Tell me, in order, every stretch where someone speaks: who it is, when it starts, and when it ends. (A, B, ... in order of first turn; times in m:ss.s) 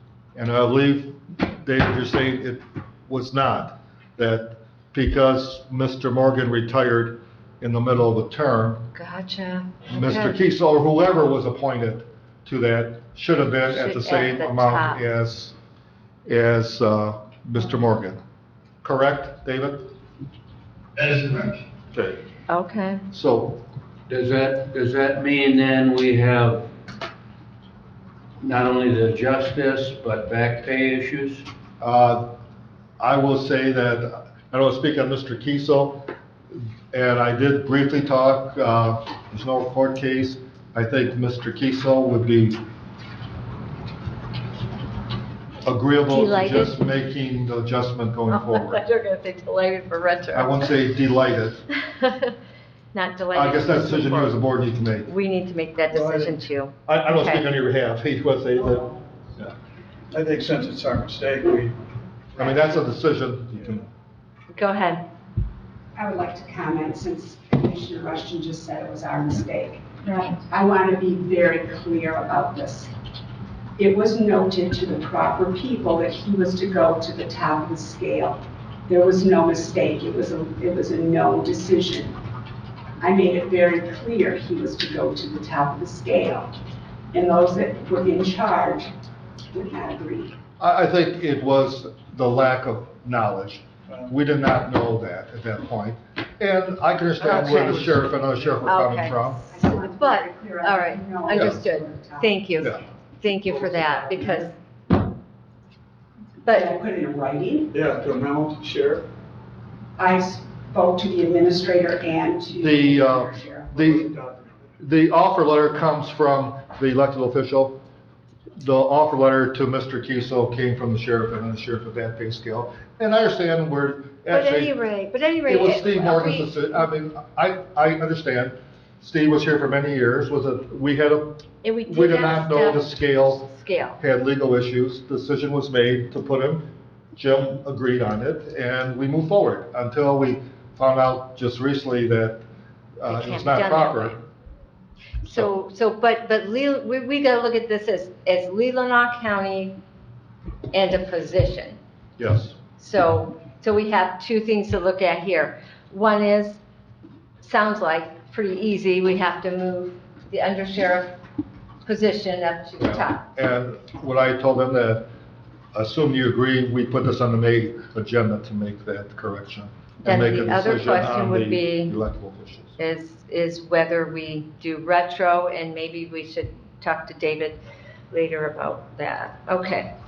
0:00.3-0:08.9 A
0:08.9-0:10.4 B
0:09.9-0:15.5 A
0:13.7-0:15.0 B
0:16.2-0:18.2 A
0:18.8-0:19.9 A
0:21.0-0:21.6 C
0:21.9-0:22.2 A
0:22.5-0:23.0 B
0:23.1-0:23.6 A
0:24.1-0:26.7 D
0:28.4-0:31.5 D
0:31.8-0:32.3 A
0:33.0-0:42.6 A
0:45.6-0:48.8 A
0:46.1-0:46.8 B
0:48.3-0:50.7 B
0:50.3-0:51.7 A
0:51.8-0:52.3 B
0:52.9-0:54.4 B
0:53.3-0:55.1 A
0:55.0-0:57.4 B
0:55.9-0:56.3 C
0:56.8-0:59.5 A
1:00.1-1:01.7 C
1:02.4-1:03.8 A
1:04.5-1:05.0 B
1:05.9-1:12.9 E
1:10.1-1:10.4 B
1:13.8-1:22.2 E
1:23.0-1:26.5 E
1:27.1-1:28.9 E
1:29.5-1:30.3 E
1:30.6-1:39.4 A
1:37.2-1:37.9 B
1:38.6-1:44.5 B
1:39.5-1:42.3 E
1:41.3-1:41.6 A
1:43.7-1:44.0 C
1:46.4-1:46.7 B
1:46.5-1:47.7 E
1:47.7-1:49.0 C
1:50.0-1:53.7 E
1:52.6-1:54.1 A
1:53.7-1:54.6 C
1:54.8-1:57.8 A
1:58.6-2:04.7 A
2:04.3-2:06.5 B
2:05.4-2:13.4 A
2:11.6-2:14.0 B
2:14.0-2:22.4 A
2:23.0-2:24.2 A
2:23.1-2:24.2 B
2:25.2-2:29.7 B
2:30.7-2:31.8 B
2:32.2-2:32.6 A
2:32.8-2:36.6 B
2:37.4-2:41.1 B
2:41.8-2:43.2 B
2:42.8-2:45.1 A
2:45.7-2:52.8 A
2:50.0-2:52.0 B
2:52.8-2:57.6 B
2:58.1-2:59.9 B